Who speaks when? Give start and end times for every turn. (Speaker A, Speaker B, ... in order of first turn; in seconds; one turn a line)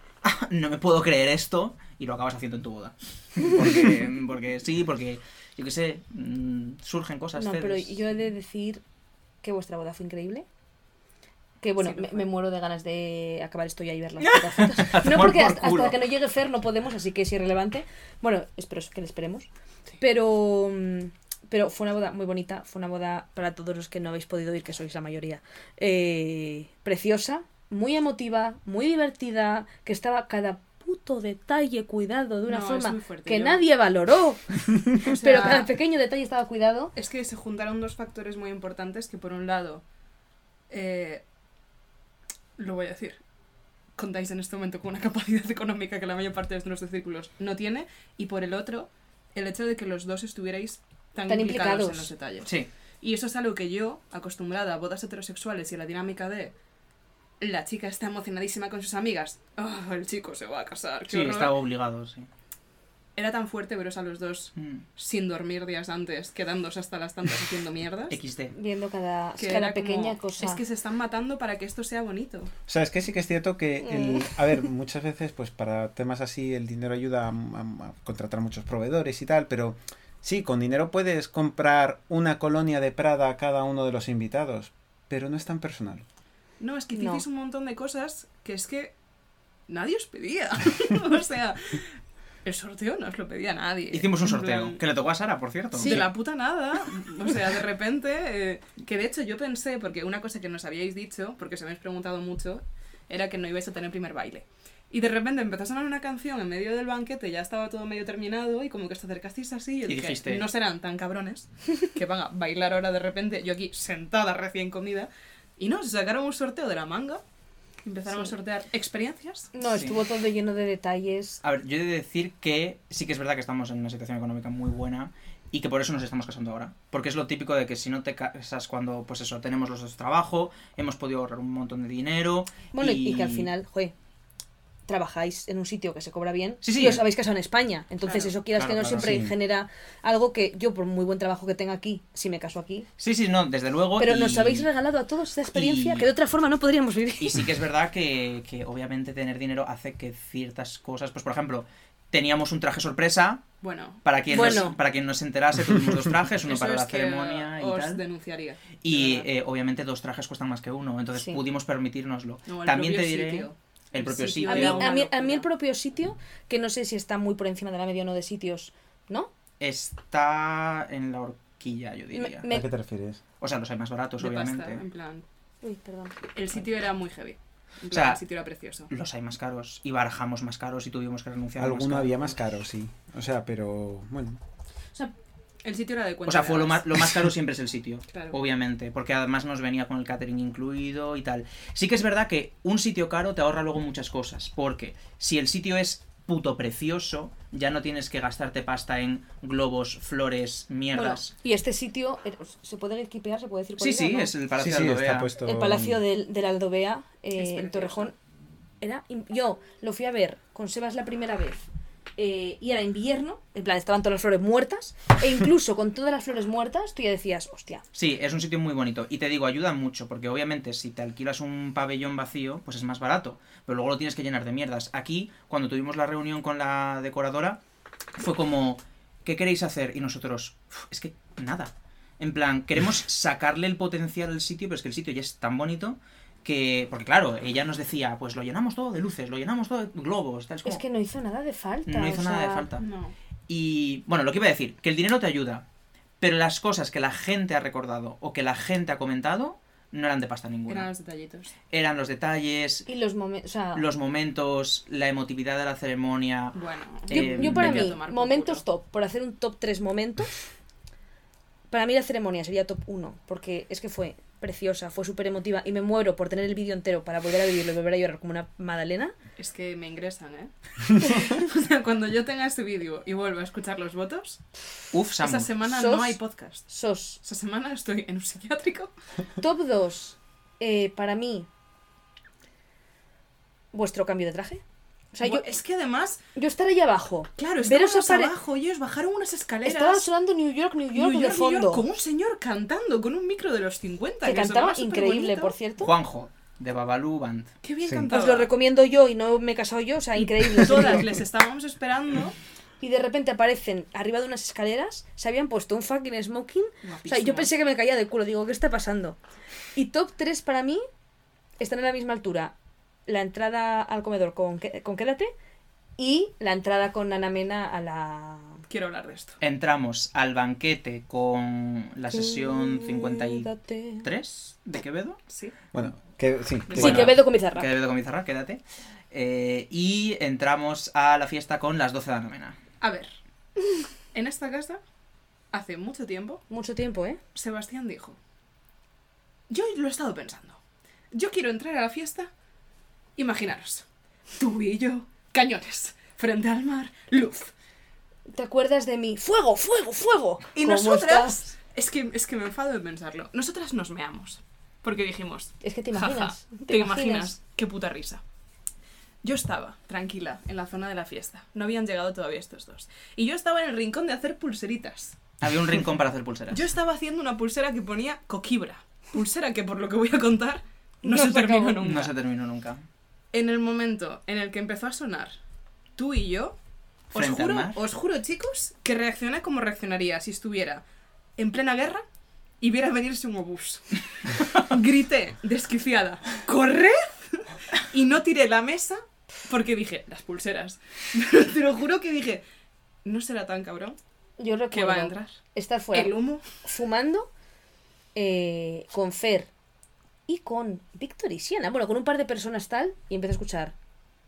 Speaker A: 0.2-8.0
Speaker B: 7.4-8.8
Speaker B: 9.4-10.4
Speaker B: 11.6-19.5
Speaker C: 11.8-12.2
Speaker A: 14.2-16.0
Speaker B: 20.0-36.9
Speaker C: 32.5-33.6
Speaker C: 35.0-35.7
Speaker C: 37.0-39.8
Speaker C: 40.7-41.2
Speaker C: 42.6-43.2
Speaker C: 44.0-52.5
Speaker B: 51.3-52.1
Speaker A: 52.4-52.7
Speaker C: 53.0-56.5
Speaker C: 57.4-61.5
Speaker A: 61.1-62.3
Speaker C: 63.2-68.2
Speaker A: 64.6-64.8
Speaker A: 68.1-68.5
Speaker B: 68.5-70.6
Speaker C: 69.4-72.5
Speaker D: 72.7-86.0
Speaker B: 73.8-74.3
Speaker C: 86.6-88.9
Speaker B: 86.9-87.2
Speaker C: 89.7-91.9
Speaker C: 92.4-94.8
Speaker A: 93.9-96.1
Speaker B: 95.8-96.1
Speaker C: 95.8-117.2
Speaker A: 109.9-110.5
Speaker C: 117.8-119.5
Speaker B: 119.5-121.4
Speaker A: 119.7-120.0
Speaker A: 121.4-133.5
Speaker B: 132.7-133.9
Speaker B: 134.9-142.9
Speaker A: 136.6-137.0
Speaker C: 138.0-138.3
Speaker A: 138.6-139.2
Speaker D: 139.0-139.3
Speaker A: 143.0-144.7
Speaker B: 144.0-147.5
Speaker A: 145.5-146.1
Speaker A: 147.2-153.4
Speaker C: 153.6-154.6
Speaker A: 154.0-158.0
Speaker B: 154.3-154.8
Speaker C: 156.4-159.3
Speaker A: 158.8-164.9
Speaker B: 161.2-161.4
Speaker C: 162.5-165.5
Speaker B: 164.4-169.3
Speaker A: 169.6-172.5
Speaker B: 172.1-172.7
Speaker D: 172.5-173.2
Speaker A: 173.4-174.8
Speaker C: 174.2-175.2
Speaker B: 175.6-176.2
Speaker C: 176.3-178.9
Speaker A: 177.9-178.2
Speaker A: 178.9-182.3
Speaker D: 181.6-184.4
Speaker C: 185.6-186.8
Speaker A: 186.3-201.3
Speaker C: 188.1-188.4
Speaker B: 200.9-204.3
Speaker A: 203.8-205.3
Speaker D: 204.6-206.0
Speaker B: 205.4-208.1
Speaker C: 207.4-208.1
Speaker B: 208.8-217.8
Speaker A: 217.9-227.6
Speaker A: 228.2-240.8
Speaker B: 240.6-242.7
Speaker A: 241.9-242.9
Speaker C: 242.8-243.2
Speaker A: 243.5-245.6
Speaker A: 246.2-250.9
Speaker C: 250.7-251.5
Speaker A: 251.7-252.9
Speaker B: 252.9-253.9
Speaker A: 253.8-258.0
Speaker C: 256.5-258.6
Speaker B: 257.1-260.3
Speaker B: 261.7-269.1
Speaker C: 269.4-274.4
Speaker A: 274.9-275.5
Speaker C: 275.2-276.6
Speaker B: 275.7-277.2
Speaker C: 277.2-278.9
Speaker B: 279.4-281.5
Speaker B: 283.7-284.6
Speaker B: 285.1-285.4
Speaker C: 285.2-286.2
Speaker B: 286.4-288.3
Speaker C: 287.4-290.1
Speaker B: 289.6-291.8
Speaker C: 290.9-295.6
Speaker B: 294.2-295.9
Speaker A: 295.8-297.5
Speaker C: 297.6-298.5
Speaker D: 297.9-298.1
Speaker B: 298.1-301.1
Speaker C: 300.5-302.4
Speaker B: 302.8-309.2
Speaker C: 306.8-307.5
Speaker B: 309.8-310.8
Speaker B: 311.6-312.5
Speaker B: 313.1-315.3
Speaker B: 316.0-318.6
Speaker C: 318.7-319.4
Speaker A: 319.4-323.5
Speaker B: 322.1-324.1
Speaker A: 324.0-325.2
Speaker C: 325.3-325.6
Speaker D: 325.7-327.1
Speaker C: 326.7-327.0
Speaker A: 326.7-328.6
Speaker B: 326.7-327.7
Speaker A: 329.1-332.6
Speaker C: 332.8-334.8
Speaker C: 335.5-336.4
Speaker B: 336.5-337.2
Speaker C: 337.3-338.2
Speaker C: 339.5-340.6
Speaker C: 341.1-342.3
Speaker C: 343.2-347.5
Speaker B: 348.3-351.4
Speaker C: 350.6-358.2
Speaker B: 355.6-357.3
Speaker C: 359.2-365.2
Speaker A: 365.4-366.6
Speaker C: 366.5-372.1
Speaker B: 371.0-371.8
Speaker A: 371.8-372.8
Speaker C: 373.3-375.3
Speaker C: 375.9-376.6
Speaker C: 377.1-380.8
Speaker A: 377.1-377.8
Speaker C: 381.4-382.0
Speaker C: 382.6-392.4
Speaker C: 393.0-394.0
Speaker B: 394.4-397.3
Speaker C: 394.7-395.4
Speaker C: 395.9-396.4
Speaker B: 398.1-399.5
Speaker B: 400.3-403.7